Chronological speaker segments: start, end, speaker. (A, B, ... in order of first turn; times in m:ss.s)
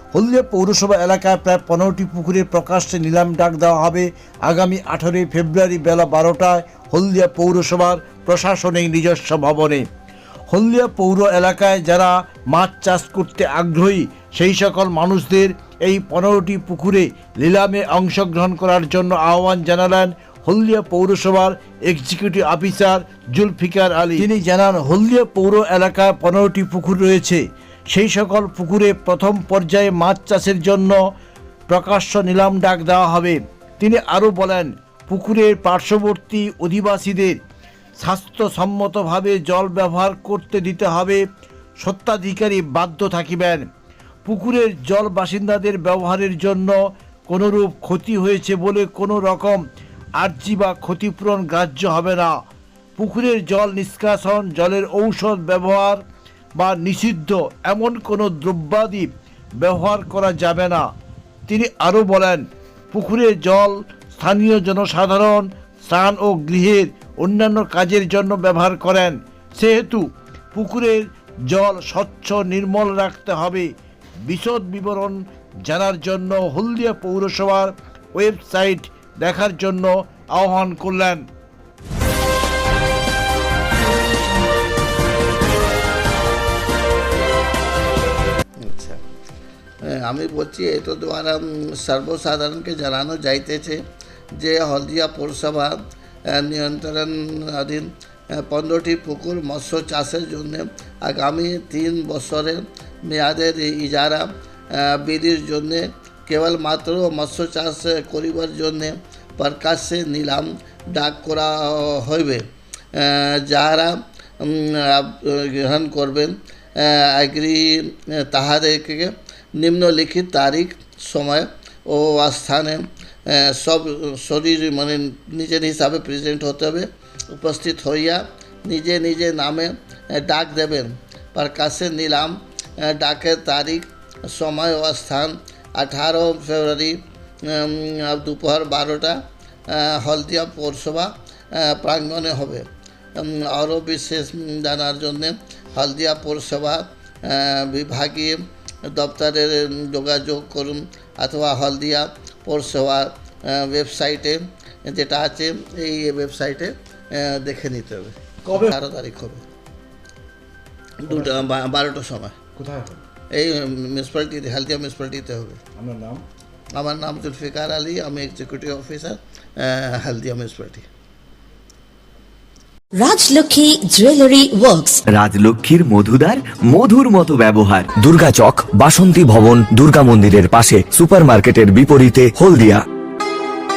0:00.1-0:09.8 A
0:10.5-0:31.0 A
0:31.7-0:37.4 A
0:38.0-0:41.2 A
0:41.8-0:43.7 A
0:44.2-0:46.8 A
0:47.3-0:49.6 A
0:50.2-0:52.4 A
0:53.0-0:56.0 A
0:56.6-0:59.1 A
0:59.6-1:00.9 A
1:01.5-1:13.7 A
1:14.2-1:21.2 A
1:28.6-1:29.0 B
1:29.9-1:33.8 B
1:34.4-1:35.8 B
1:36.3-1:37.9 B
1:38.4-1:52.4 B
1:53.0-2:17.0 B
2:17.5-2:19.2 B
2:19.7-2:22.6 B
2:23.2-2:28.4 B
2:28.9-2:39.4 B
2:38.4-2:38.7 A
2:41.0-2:42.4 B
2:41.1-2:41.4 A
2:42.6-2:43.0 A
2:43.3-2:45.6 B
2:45.8-2:46.2 A
2:46.7-2:50.8 B
2:52.9-2:55.0 C
2:55.1-2:57.9 D
2:57.9-3:02.8 E